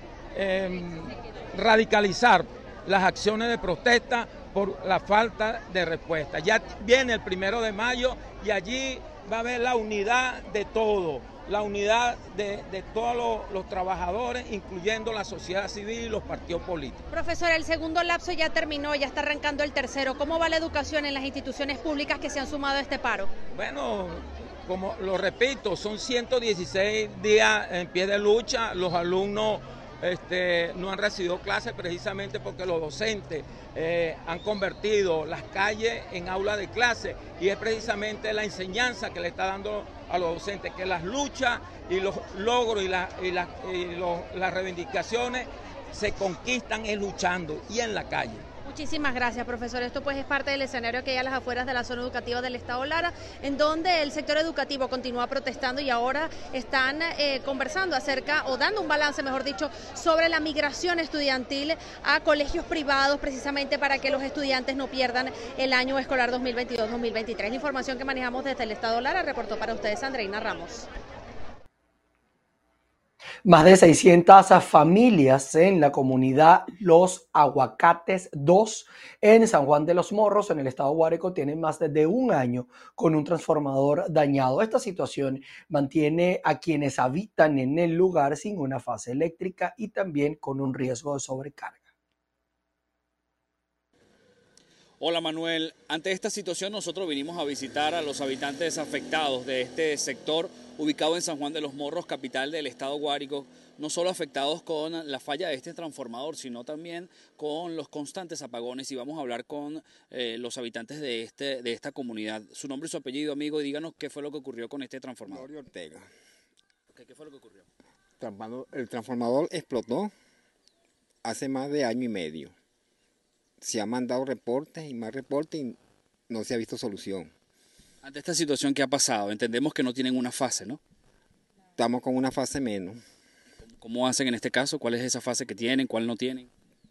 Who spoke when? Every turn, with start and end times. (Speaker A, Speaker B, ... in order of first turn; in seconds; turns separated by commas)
Speaker A: 0.3-17.1, Speaker B: 17.1-23.3, Speaker A: 23.5-48.5, Speaker B: 48.6-70.9, Speaker C: 73.5-91.8, Speaker D: 95.0-115.5, Speaker E: 115.2-116.1, Speaker D: 116.9-117.7, Speaker E: 118.2-120.1, Speaker E: 121.2-122.5, Speaker E: 123.6-125.8, Speaker E: 126.3-127.3, Speaker D: 128.0-130.8, Speaker E: 131.8-133.0, Speaker D: 133.7-136.5